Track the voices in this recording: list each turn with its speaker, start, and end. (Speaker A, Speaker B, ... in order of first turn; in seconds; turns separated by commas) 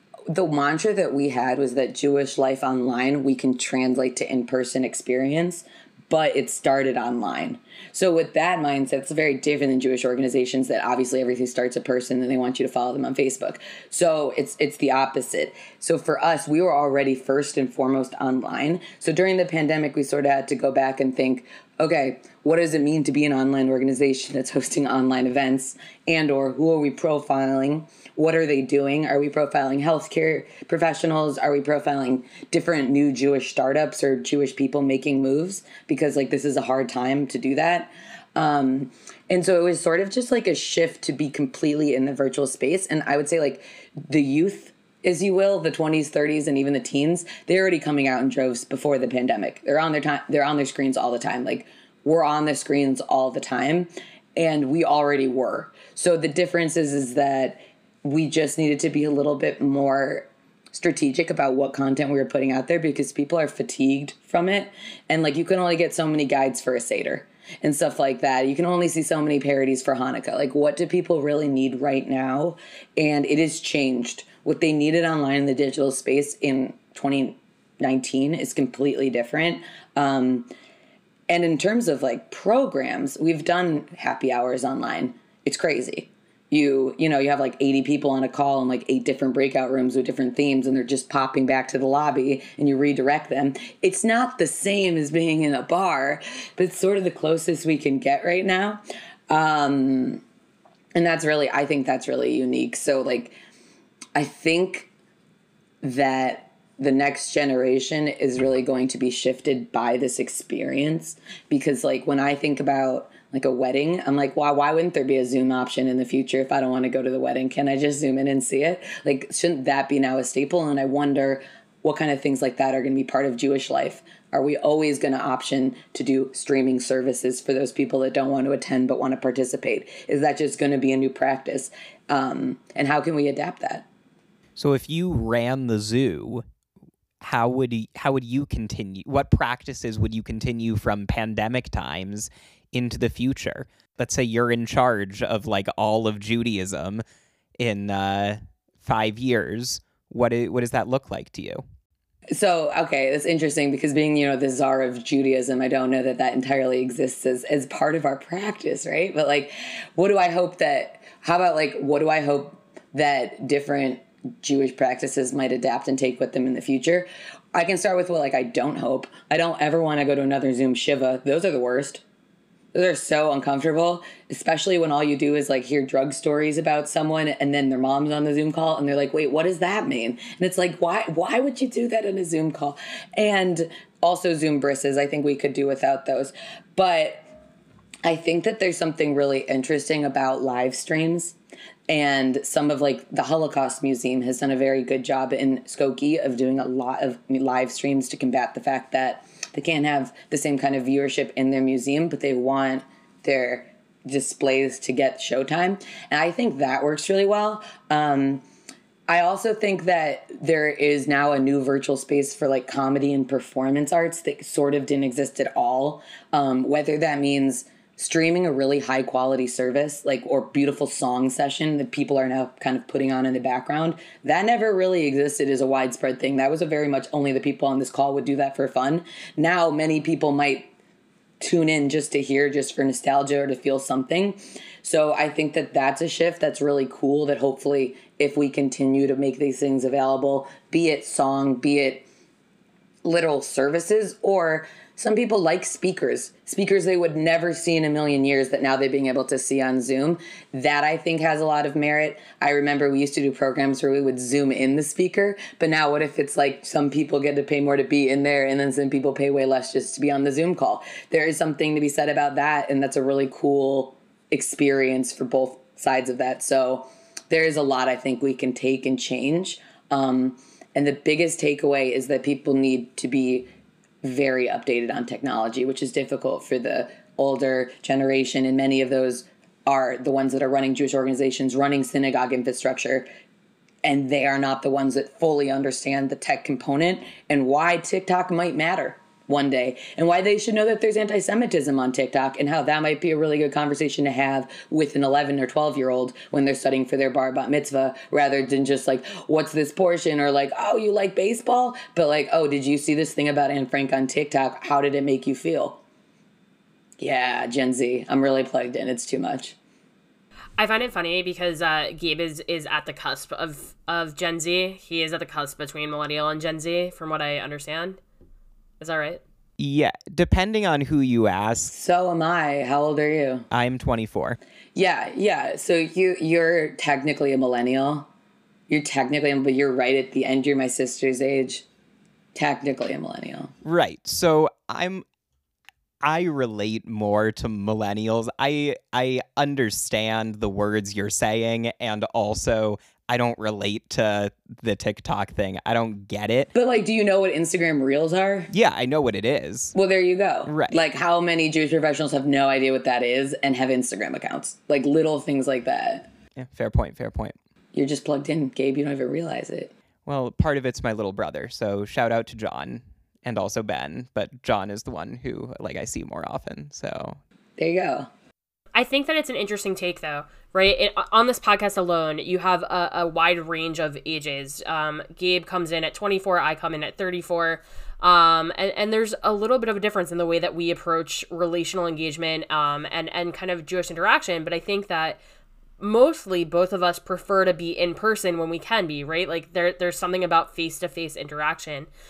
Speaker A: 0.3-80.5, Speaker A: 81.3-100.2, Speaker A: 100.9-103.3, Speaker A: 104.1-104.9, Speaker A: 105.8-133.8, Speaker B: 134.6-136.4, Speaker B: 137.2-147.0, Speaker B: 147.6-151.6, Speaker A: 152.3-172.0, Speaker A: 172.7-187.2, Speaker A: 188.0-191.3, Speaker A: 191.9-208.4, Speaker A: 209.1-230.7, Speaker A: 231.4-242.1, Speaker A: 243.0-273.5, Speaker A: 274.0-283.1, Speaker A: 283.8-305.8, Speaker A: 307.0-309.6, Speaker C: 310.6-318.0, Speaker C: 318.8-319.2, Speaker B: 319.6-321.7, Speaker A: 321.7-323.5, Speaker B: 323.5-324.4, Speaker A: 324.7-328.1, Speaker A: 328.7-331.6, Speaker A: 332.3-333.5, Speaker B: 333.6-335.0, Speaker B: 336.0-346.5, Speaker A: 346.5-348.5, Speaker B: 348.5-349.7, Speaker A: 349.7-356.1, Speaker B: 350.5-350.8, Speaker B: 356.4-357.4, Speaker A: 357.7-359.7, Speaker B: 360.1-367.2, Speaker A: 367.6-368.1, Speaker C: 368.7-385.2, Speaker C: 385.8-391.9